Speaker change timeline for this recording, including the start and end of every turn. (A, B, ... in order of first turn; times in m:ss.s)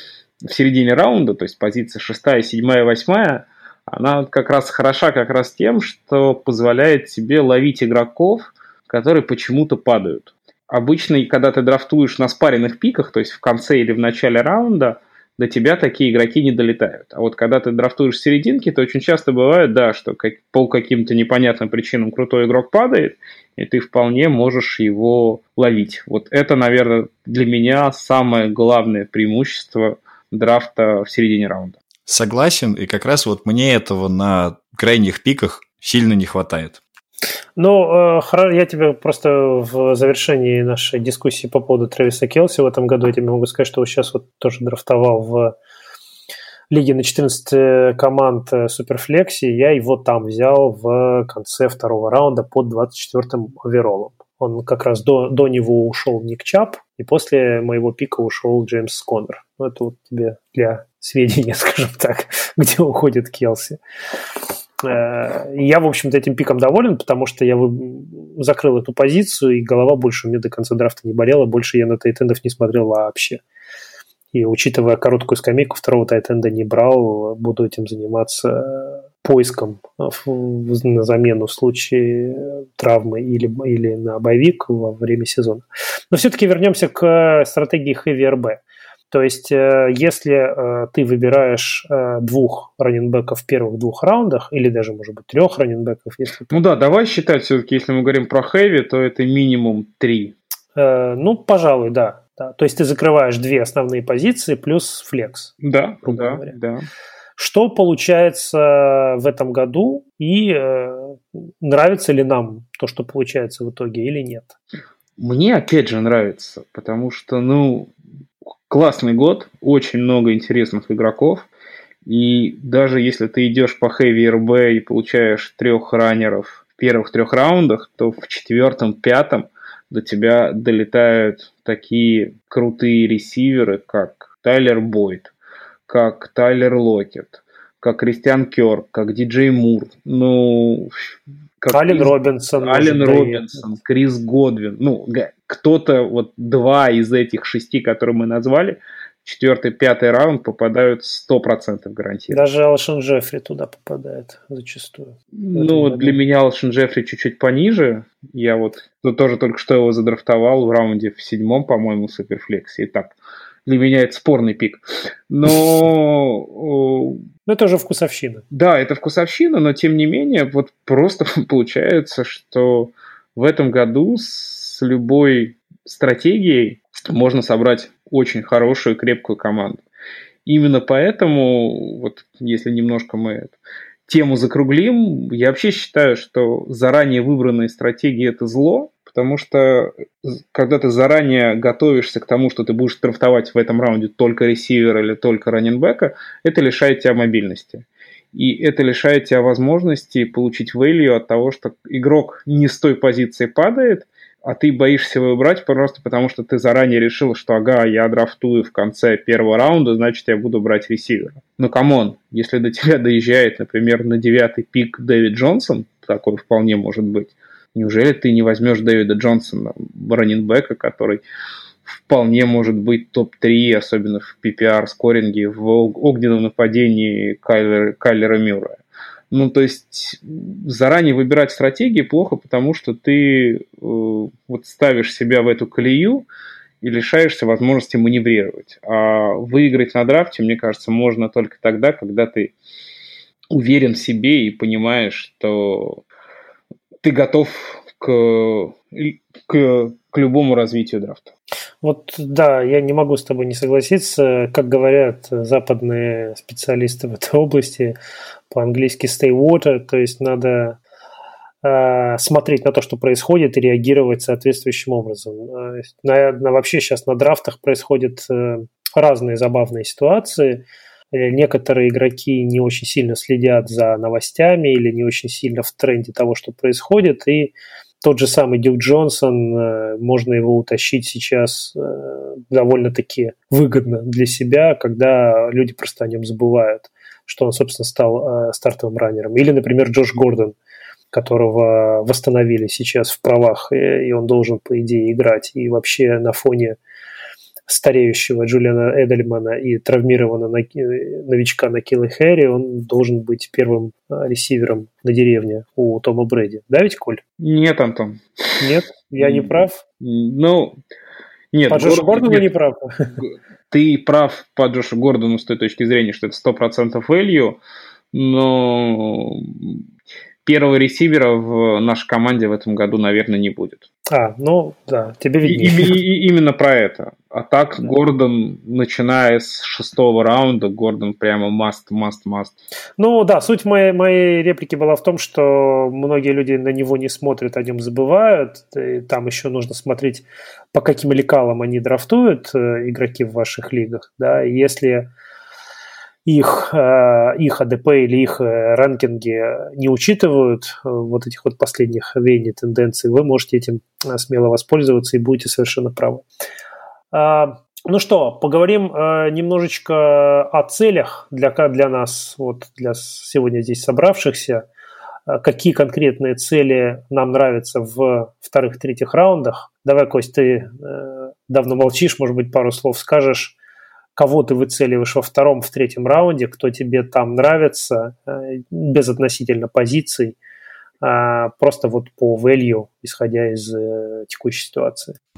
0:00.4-0:31.8 A
0:32.1-0:36.8 B
0:37.6-0:45.5 C
0:46.7-1:03.8 C
1:04.8-1:13.4 C
1:14.3-1:36.5 C
1:36.5-1:40.3 A
1:40.8-1:45.5 C
1:45.6-1:46.8 A
1:46.0-1:46.5 C
1:47.4-1:54.5 C
1:55.2-1:57.9 A
1:58.7-2:01.5 A
2:02.0-2:15.3 A
2:15.9-2:21.1 A
2:21.6-2:32.4 A
2:21.7-2:23.5 C
2:32.3-2:36.2 C
2:35.3-2:43.1 A
2:43.6-2:47.2 A
2:47.5-2:48.4 C
2:48.5-2:59.8 A
3:00.4-3:03.5 A
3:04.1-3:41.2 A
3:41.9-3:48.8 A
3:49.3-3:56.3 A
3:56.8-4:02.5 A
4:03.5-4:06.0 A
4:07.0-4:11.3 A
4:11.8-4:18.0 C
4:18.5-4:20.8 C
4:21.6-4:50.5 C
4:51.1-4:56.8 C
4:57.7-5:07.2 C
5:07.4-5:08.7 A
5:08.6-5:09.8 C
5:09.2-5:10.8 A
5:11.5-5:12.5 A
5:11.7-5:13.1 C
5:13.2-5:17.6 A
5:18.1-5:19.8 A
5:20.4-5:23.9 A
5:24.1-5:25.9 C
5:25.4-5:32.5 A
5:33.0-5:45.1 C
5:46.2-5:56.2 C
5:57.1-6:04.6 C
6:05.3-6:13.5 C
6:14.2-6:20.4 C
6:21.0-6:25.2 C